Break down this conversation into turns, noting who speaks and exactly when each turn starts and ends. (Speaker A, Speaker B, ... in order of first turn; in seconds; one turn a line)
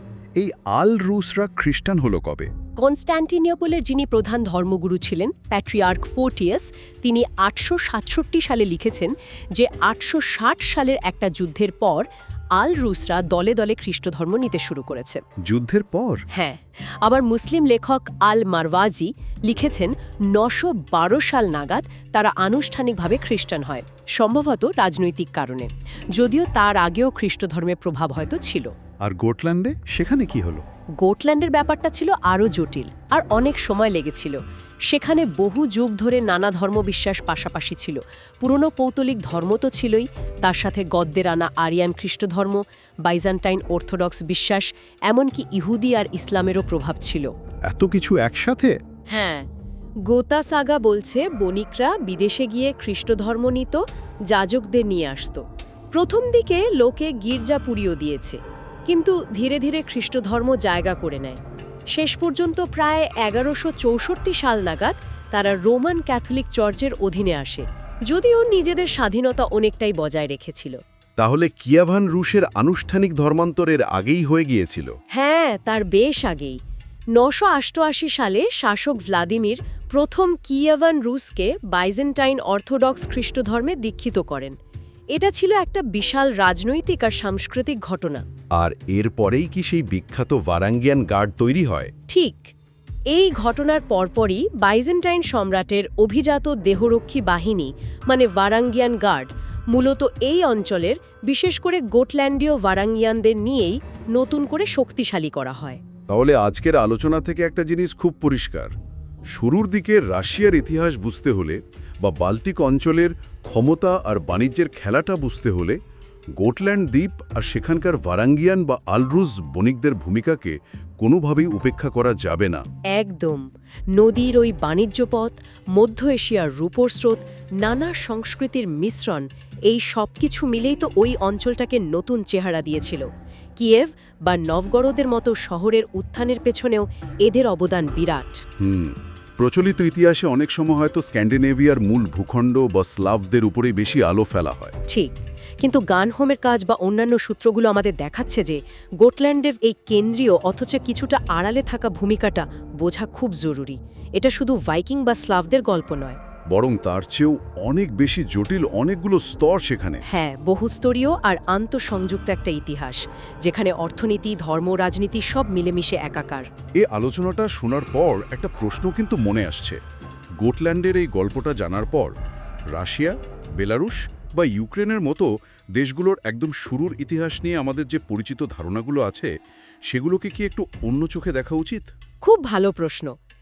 Speaker A: 0.4-2.5
Speaker B: 2.8-15.2
Speaker A: 15.5-16.2
Speaker B: 16.3-28.7
Speaker A: 29.0-30.6
Speaker B: 31.0-47.3
Speaker A: 47.7-48.8
Speaker B: 49.1-49.5
Speaker B: 50.1-61.4
Speaker B: 61.9-70.8
Speaker A: 71.2-74.9
Speaker B: 75.1-76.6
Speaker B: 77.2-84.5
Speaker B: 85.1-88.2
Speaker A: 88.6-91.9
Speaker B: 92.1-92.5
Speaker B: 93.1-105.8
Speaker A: 106.1-108.7
Speaker A: 109.3-115.8
Speaker A: 116.4-122.6
Speaker B: 122.9-133.1
Speaker B: 133.6-138.4
Speaker A: 138.6-144.8
Speaker B: 144.9-156.2
Speaker A: 156.5-160.0
Speaker B: 160.1-166.5
Speaker A: 166.8-169.8
Speaker A: 170.4-172.1
Speaker A: 172.7-179.3
Speaker A: 179.9-181.9
Speaker B: 182.2-183.1